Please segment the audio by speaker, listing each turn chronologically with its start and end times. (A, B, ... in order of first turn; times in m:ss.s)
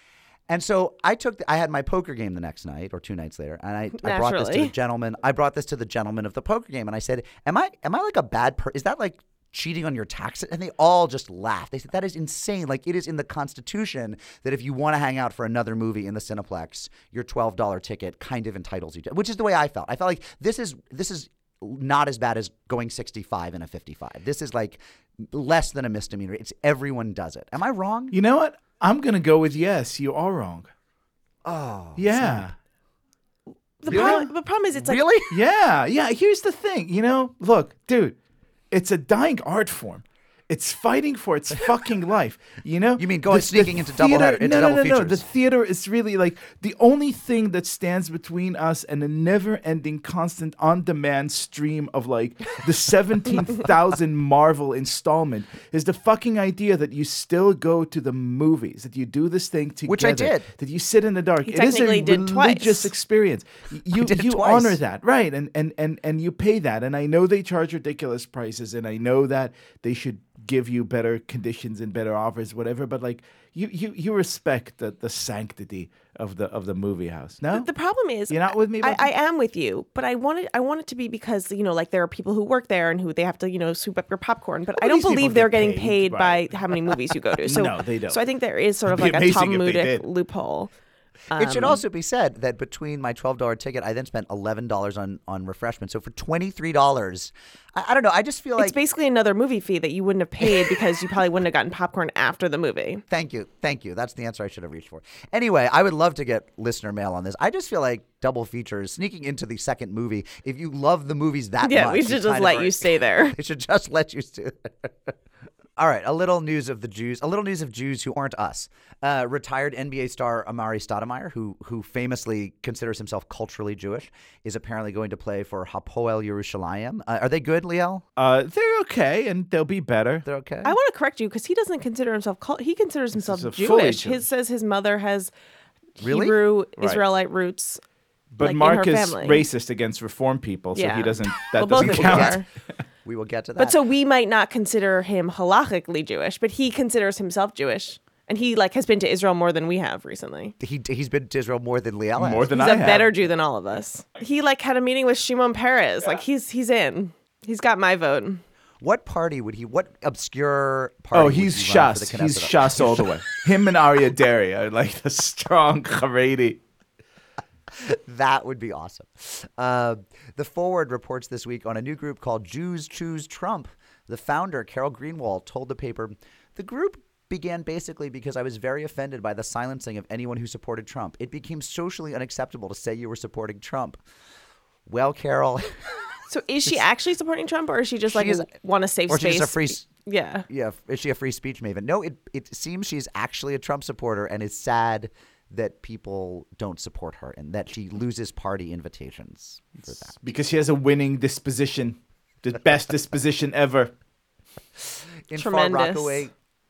0:00.5-0:28.2 A
0:04.0-0:04.7 B
0:28.1-0:30.7 C
0:31.4-0:32.5 A
0:32.0-0:32.5 C
0:33.8-0:35.0 B
0:33.9-0:34.2 A
0:33.9-0:34.3 C
0:34.8-0:35.3 A
0:35.3-0:38.2 C
0:38.7-1:17.7 C
0:43.0-0:45.2 A
0:59.9-1:00.5 A
1:01.4-1:02.9 B
1:03.9-1:04.8 A
1:17.5-1:30.7 B
1:18.3-1:19.1 C
1:24.8-1:26.7 C
1:27.4-1:28.2 C
1:28.9-1:30.0 C
1:31.3-1:31.8 B
1:31.4-1:38.7 A
1:38.6-1:43.0 B
1:43.1-1:55.1 A
1:51.6-1:53.4 B
1:55.8-2:08.0 A
2:08.2-2:10.2 C
2:10.2-2:10.7 A
2:10.6-2:15.3 B
2:13.2-2:14.2 C
2:16.0-2:17.8 B
2:16.0-2:16.3 A
2:18.3-2:22.4 C
2:18.4-2:19.5 B
2:20.7-2:22.5 B
2:21.8-2:22.4 A
2:23.0-2:23.8 A
2:23.6-2:30.5 B
2:30.6-2:32.5 A
2:32.2-2:33.1 C
2:32.5-2:38.4 B
2:38.8-2:43.0 A
2:41.1-2:46.6 C
2:47.7-3:04.0 A
3:04.9-3:05.8 A
3:06.3-3:10.4 B
3:08.1-3:08.5 A
3:09.1-3:09.9 A
3:10.5-3:20.2 A
3:20.1-3:23.9 C
3:25.3-3:26.3 A
3:25.4-3:26.3 B